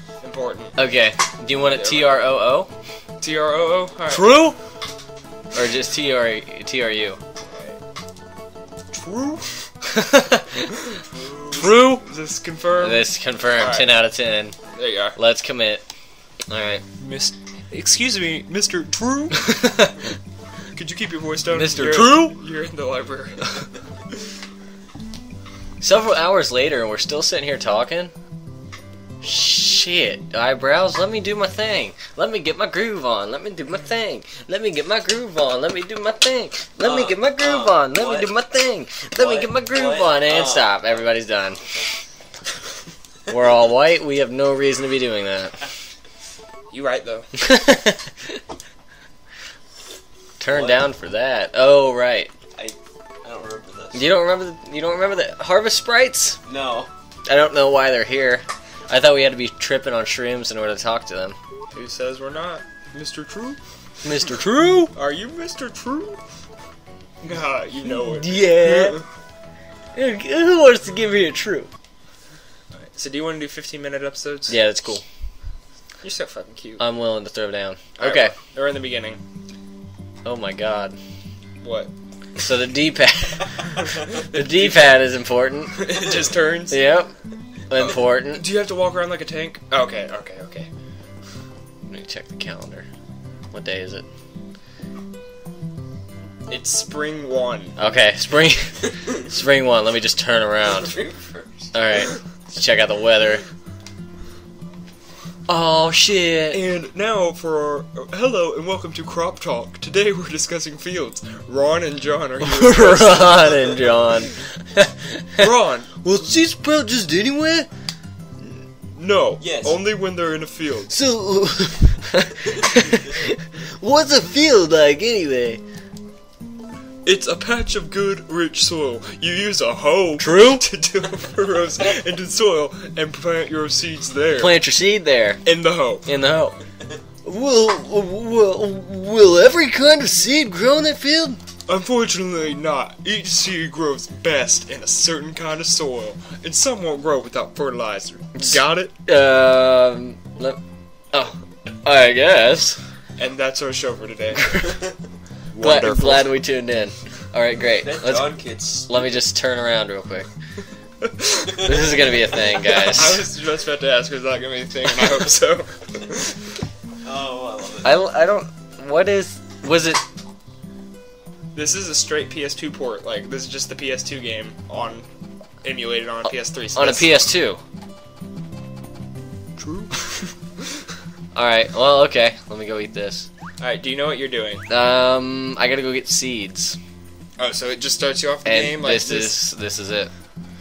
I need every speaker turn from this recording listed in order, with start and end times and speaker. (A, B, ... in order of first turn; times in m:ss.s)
0:00.2-0:00.8 A
0:00.8-0:02.7 B
0:01.7-0:02.2 A
0:03.2-0:04.3 A
0:04.1-0:04.6 B
0:05.5-0:07.2 B
0:07.4-0:07.8 A
0:08.9-0:09.7 A
0:10.0-0:10.6 B
0:11.0-0:14.0 A
0:11.5-0:12.0 B
0:12.8-0:14.5 B
0:14.7-0:15.2 A
0:15.1-0:15.8 B
0:16.5-0:16.8 B
0:17.0-0:19.5 A
0:19.5-0:20.0 B
0:20.7-0:23.7 A
0:21.5-0:22.4 B
0:25.8-0:28.1 B
0:29.2-0:41.6 B
0:36.8-0:38.3 C
0:39.2-0:41.9 C
0:43.3-0:45.6 B
0:46.7-0:47.3 A
0:47.4-0:48.1 B
0:50.4-0:52.3 B
0:50.5-0:50.9 C
0:52.5-0:54.1 C
0:53.9-0:56.4 B
0:56.4-0:56.9 C
0:57.2-1:01.4 B
1:01.7-1:03.6 A
1:04.0-1:04.9 B
1:04.9-1:06.2 A
1:07.2-1:09.0 A
1:07.9-1:09.0 B
1:09.9-1:11.7 B
1:12.7-1:14.6 A
1:14.5-1:15.0 B
1:16.0-1:16.8 A
1:16.8-1:18.3 B
1:18.0-1:19.2 A
1:20.2-1:21.0 B
1:21.6-1:21.9 A
1:22.4-1:25.8 B
1:24.2-1:25.0 A
1:25.7-1:26.8 A
1:26.7-1:27.1 B
1:27.7-1:28.4 B
1:27.7-1:30.7 A
1:31.8-1:32.9 B
1:33.5-1:34.0 B
1:36.5-1:37.8 A
1:37.8-1:41.0 B
1:40.7-1:41.7 C
1:41.7-1:43.4 B
1:45.5-1:46.6 B
1:46.5-1:53.7 A
1:52.4-1:55.4 B
1:55.4-1:55.9 A
1:56.0-1:57.7 B
1:58.9-2:01.0 A
1:59.4-1:59.8 C
2:00.9-2:05.6 B
2:07.0-2:14.6 A
2:10.2-2:10.6 B
2:14.3-2:15.4 B
2:15.4-2:16.1 A
2:16.0-2:16.6 B
2:17.2-2:21.4 B
2:21.7-2:28.9 A
2:28.4-2:30.6 B
2:31.1-2:32.8 B
2:33.2-2:34.5 A
2:34.4-2:34.8 B
2:35.5-2:36.3 A
2:35.6-2:40.3 B
2:37.8-2:39.1 C
2:41.0-2:46.5 A
2:41.5-2:43.2 B
2:47.0-2:47.9 C
2:47.8-2:50.0 B
2:51.5-2:55.1 A
2:55.6-2:57.1 A
2:56.7-2:57.6 B
2:59.6-3:00.3 A
3:01.3-3:03.3 B
3:03.6-3:04.6 A
3:04.7-3:06.8 B
3:07.4-3:09.4 A
3:08.4-3:10.1 B